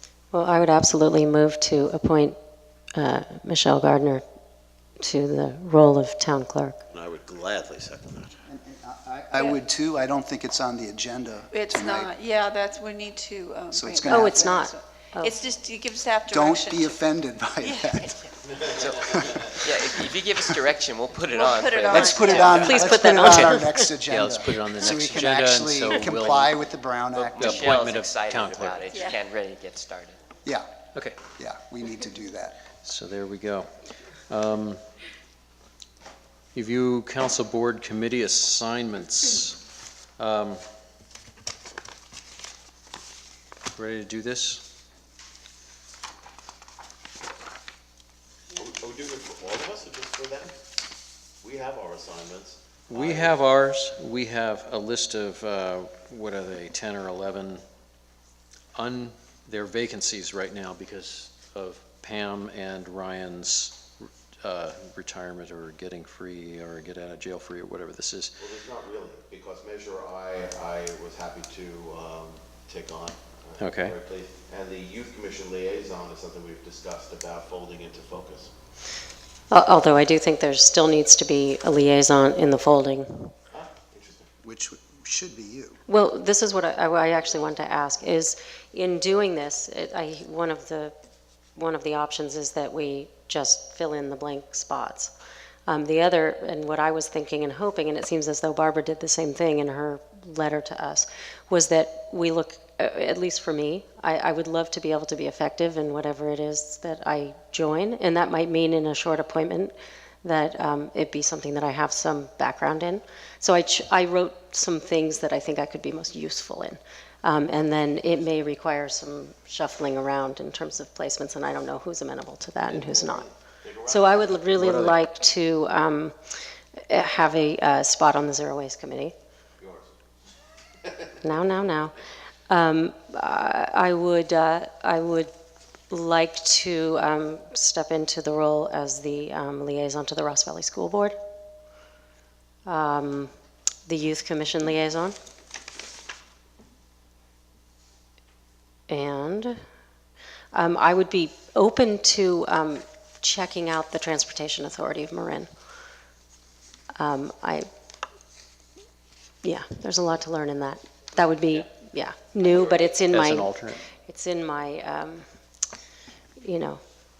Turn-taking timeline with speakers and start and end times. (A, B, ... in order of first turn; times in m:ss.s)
0:00.3-0:02.4 A
0:03.0-0:04.2 A
0:05.0-0:06.8 A
0:06.9-0:08.4 B
0:08.5-0:12.1 C
0:11.5-0:17.0 D
0:13.7-0:14.5 C
0:14.1-0:15.4 A
0:16.3-0:18.3 C
0:17.6-0:18.0 D
0:18.5-0:19.5 B
0:18.7-0:23.3 E
0:21.3-0:22.7 D
0:21.9-0:27.7 C
0:22.5-0:23.9 A
0:24.1-0:26.6 F
0:27.1-0:30.2 E
0:27.4-0:28.8 F
0:28.8-0:29.2 D
0:31.4-0:32.6 C
0:32.8-0:33.7 F
0:34.3-0:34.8 F
0:36.6-0:39.6 F
0:40.2-0:40.6 F
0:43.8-0:44.6 F
0:48.5-0:50.5 B
0:51.4-0:53.4 B
0:52.9-0:57.6 F
0:58.8-1:08.4 F
1:08.4-1:18.5 B
1:13.6-1:14.0 F
1:19.5-1:23.3 A
1:23.5-1:24.3 B
1:24.4-1:25.8 C
1:25.9-1:30.9 A
1:31.6-1:35.1 A
1:35.7-2:03.3 A
2:02.8-2:04.4 B
2:03.9-2:06.2 A
2:04.6-2:05.0 F
2:06.8-2:09.1 A
2:09.6-2:10.0 B
2:10.8-2:11.2 B
2:11.2-2:12.0 A
2:12.5-2:15.3 A
2:15.9-2:21.2 A
2:22.7-2:23.3 A
2:23.9-2:25.2 A
2:28.9-2:29.6 A
2:30.5-2:35.5 A
2:37.0-2:37.7 A
2:39.4-2:45.3 A
2:43.1-2:43.8 F
2:46.4-2:46.8 A